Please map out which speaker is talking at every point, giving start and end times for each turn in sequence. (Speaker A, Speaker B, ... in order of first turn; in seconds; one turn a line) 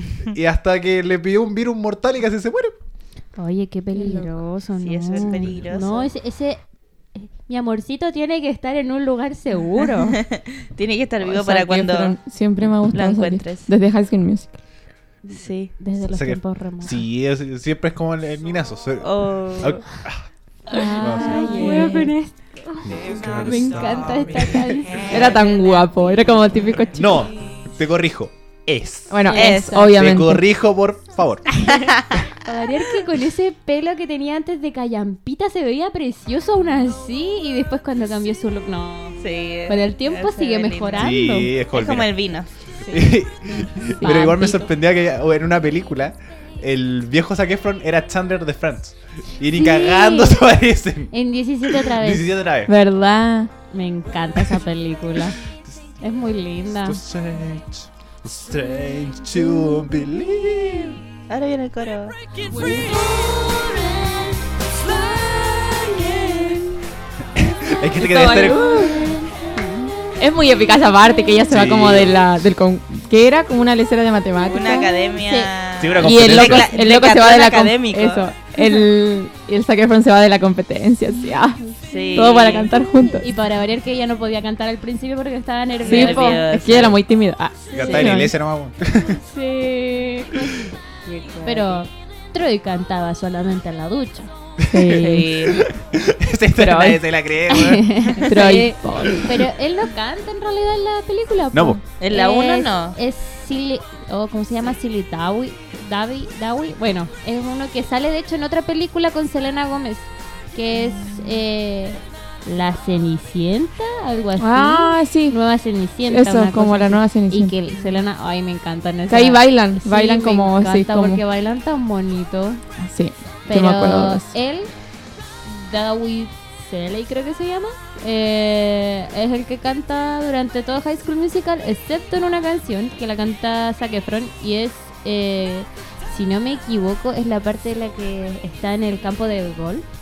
Speaker A: 0.2-2.7
Speaker B: 3.4-6.6
Speaker C: 4.0-4.2
Speaker D: 4.8-6.1
Speaker B: 7.1-10.2
Speaker D: 10.1-12.2
Speaker C: 11.2-14.5
Speaker D: 12.9-13.7
Speaker B: 15.2-17.0
Speaker D: 15.3-15.7
Speaker A: 16.1-20.2
Speaker D: 19.0-19.8
Speaker C: 20.7-22.1
Speaker B: 20.7-26.2
Speaker A: 20.8-21.5
Speaker D: 21.2-22.1
Speaker A: 22.9-24.8
Speaker C: 25.1-27.2
Speaker A: 26.9-31.7
Speaker C: 29.1-30.4
Speaker B: 29.3-29.9
Speaker D: 29.3-29.7
Speaker B: 31.6-41.5
Speaker D: 31.7-32.2
Speaker D: 39.2-41.2
Speaker A: 41.0-42.1
Speaker D: 41.7-42.5
Speaker B: 42.9-43.1
Speaker A: 42.9-51.1
Speaker B: 44.0-44.7
Speaker B: 49.5-50.4
Speaker B: 51.1-52.2
Speaker A: 51.7-52.7
Speaker C: 52.7-53.5
Speaker B: 53.7-55.4
Speaker B: 56.0-57.0
Speaker A: 56.8-61.0
Speaker D: 61.3-62.1
Speaker D: 65.3-66.6
Speaker A: 67.3-68.9
Speaker C: 68.0-69.2
Speaker B: 68.8-69.9
Speaker C: 70.2-74.9
Speaker A: 71.5-72.3
Speaker D: 74.4-78.3
Speaker B: 74.8-75.5
Speaker A: 75.8-76.7
Speaker C: 76.0-81.6
Speaker B: 81.2-81.8
Speaker D: 81.8-82.7
Speaker C: 82.1-83.3
Speaker B: 83.0-86.4
Speaker D: 85.8-87.0
Speaker C: 85.8-88.3
Speaker A: 87.7-89.2
Speaker D: 87.8-88.1
Speaker B: 89.2-90.8
Speaker D: 91.0-91.8
Speaker B: 91.4-94.3
Speaker A: 94.6-98.2
Speaker C: 94.7-95.3
Speaker D: 95.0-95.7
Speaker C: 96.6-97.0
Speaker B: 97.5-122.6
Speaker C: 98.2-99.2
Speaker A: 101.5-101.8
Speaker D: 102.0-103.0
Speaker C: 114.4-115.4
Speaker C: 116.1-117.5
Speaker C: 119.1-121.2
Speaker C: 122.8-124.3
Speaker B: 123.5-124.7
Speaker B: 125.4-139.8